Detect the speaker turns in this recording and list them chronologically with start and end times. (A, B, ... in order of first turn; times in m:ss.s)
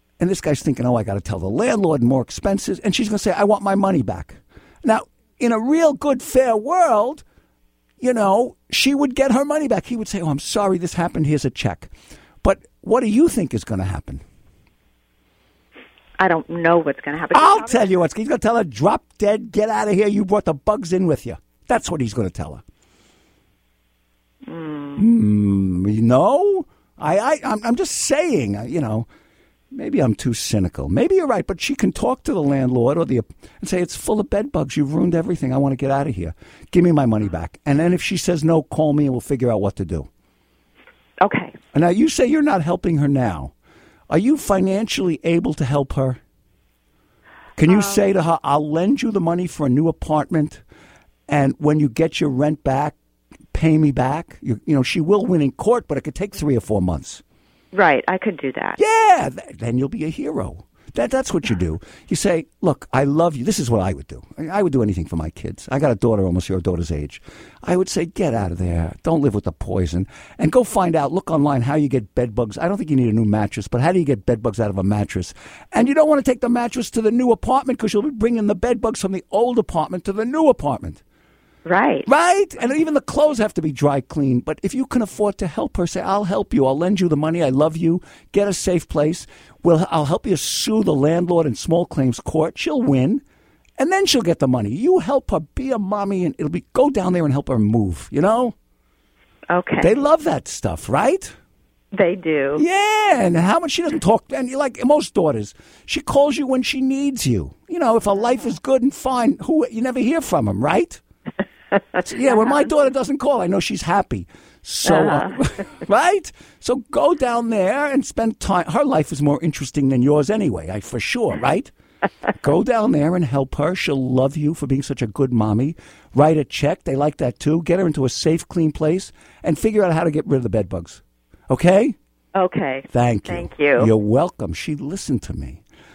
0:00.2-0:07.2 A
0:08.0-0:11.9 A
0:12.4-0:14.2 A
0:16.2-0:17.8 B
0:17.3-0:22.6 A
0:24.5-0:25.0 B
0:25.0-0:29.1 A
0:29.7-0:40.1 A
0:41.2-0:41.5 B
0:41.7-0:43.5 A
0:44.1-0:46.2 A
0:47.6-0:50.6 A
0:47.6-0:48.0 B
0:51.3-0:52.9 A
0:53.5-0:57.2 A
0:57.7-0:58.8 B
0:58.8-1:21.0 A
1:21.6-1:22.1 B
1:22.0-1:33.2 A
1:33.8-1:38.5 A
1:39.5-1:39.9 B
1:39.8-1:41.3 A
1:41.9-1:42.6 B
1:42.5-1:51.0 A
1:52.0-2:01.7 A
1:54.8-1:55.3 B
2:02.4-2:12.0 A
2:12.3-2:13.9 B
2:12.9-2:15.6 A